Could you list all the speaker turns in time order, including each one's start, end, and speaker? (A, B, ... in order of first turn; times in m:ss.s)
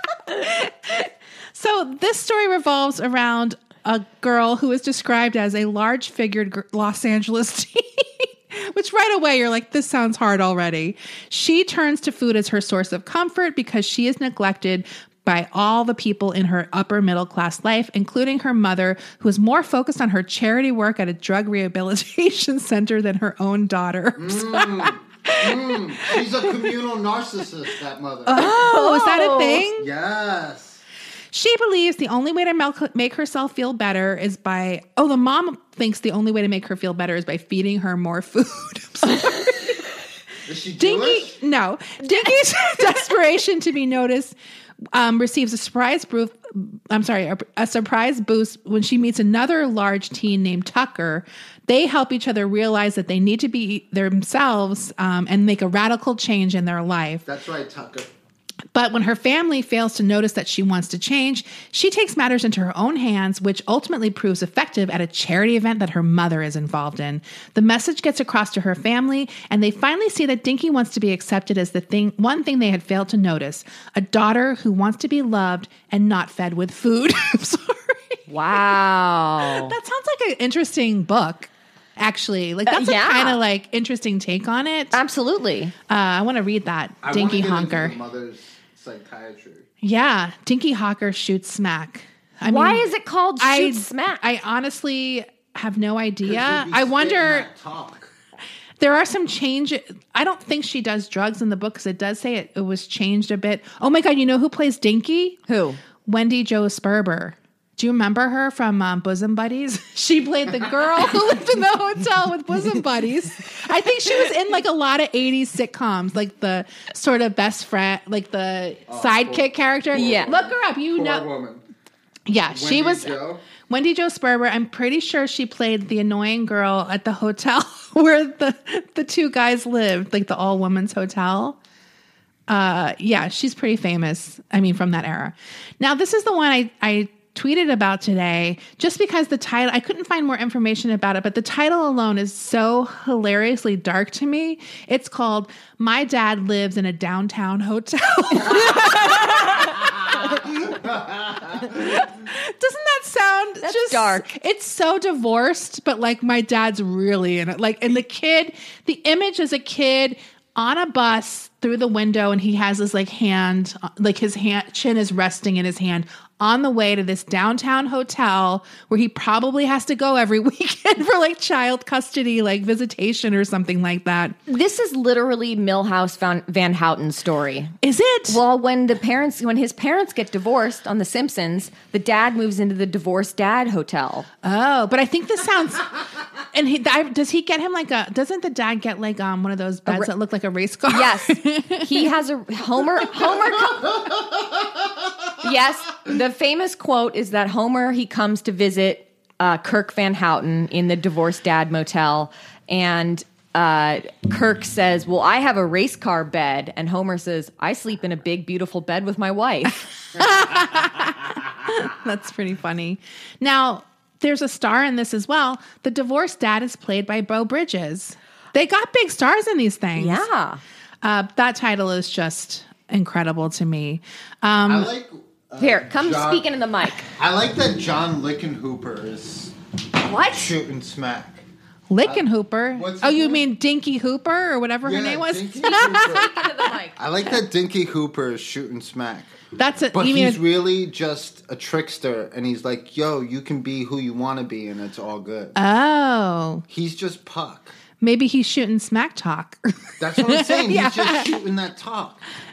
0:00.3-0:26.2 A
0:24.2-0:28.4 B
0:28.3-0:29.9 A
0:28.3-0:29.6 C
0:29.8-0:30.8 B
0:31.3-0:39.8 A
0:40.4-0:41.4 B
0:40.8-0:44.3 A
0:44.9-0:57.2 A
0:57.2-0:58.1 B
0:58.7-1:18.2 A
1:18.3-1:19.7 C
1:19.4-1:25.0 A
1:22.7-1:23.4 C
1:24.9-1:25.7 C
1:25.9-1:28.0 A
1:27.0-1:29.6 B
1:29.8-1:32.8 A
1:32.4-1:34.2 C
1:33.4-1:37.5 A
1:36.2-1:38.1 B
1:38.8-1:45.4 A
1:45.5-1:45.8 C
1:46.0-2:01.2 A
1:58.9-2:01.6 B
1:59.9-2:00.3 C
2:02.3-2:11.6 A
2:02.5-2:03.4 B
2:12.5-2:30.4 A
2:30.7-2:31.6 B
2:31.6-2:54.4 A
2:33.6-2:34.2 C
2:54.5-2:57.7 C
2:57.8-2:58.4 A
2:58.3-3:04.3 C
3:04.4-3:05.9 A
3:06.5-3:12.1 A
3:09.9-3:10.1 C
3:10.9-3:14.0 C
3:15.4-3:29.9 C
3:30.2-3:40.3 A
3:40.0-3:40.6 C
3:41.0-3:44.9 A
3:44.6-3:46.4 B
3:45.6-3:47.1 C
3:47.2-3:49.5 B
3:50.0-3:50.5 C
3:50.3-3:51.4 B
3:51.9-3:56.5 A
3:52.0-3:53.5 B
3:54.8-3:56.4 B
3:55.6-3:57.0 C
3:57.0-3:59.4 B
3:59.6-4:00.4 A
3:59.9-4:05.6 B
4:05.6-4:06.6 A
4:06.7-4:07.8 B
4:08.0-4:11.3 A
4:10.0-4:12.2 B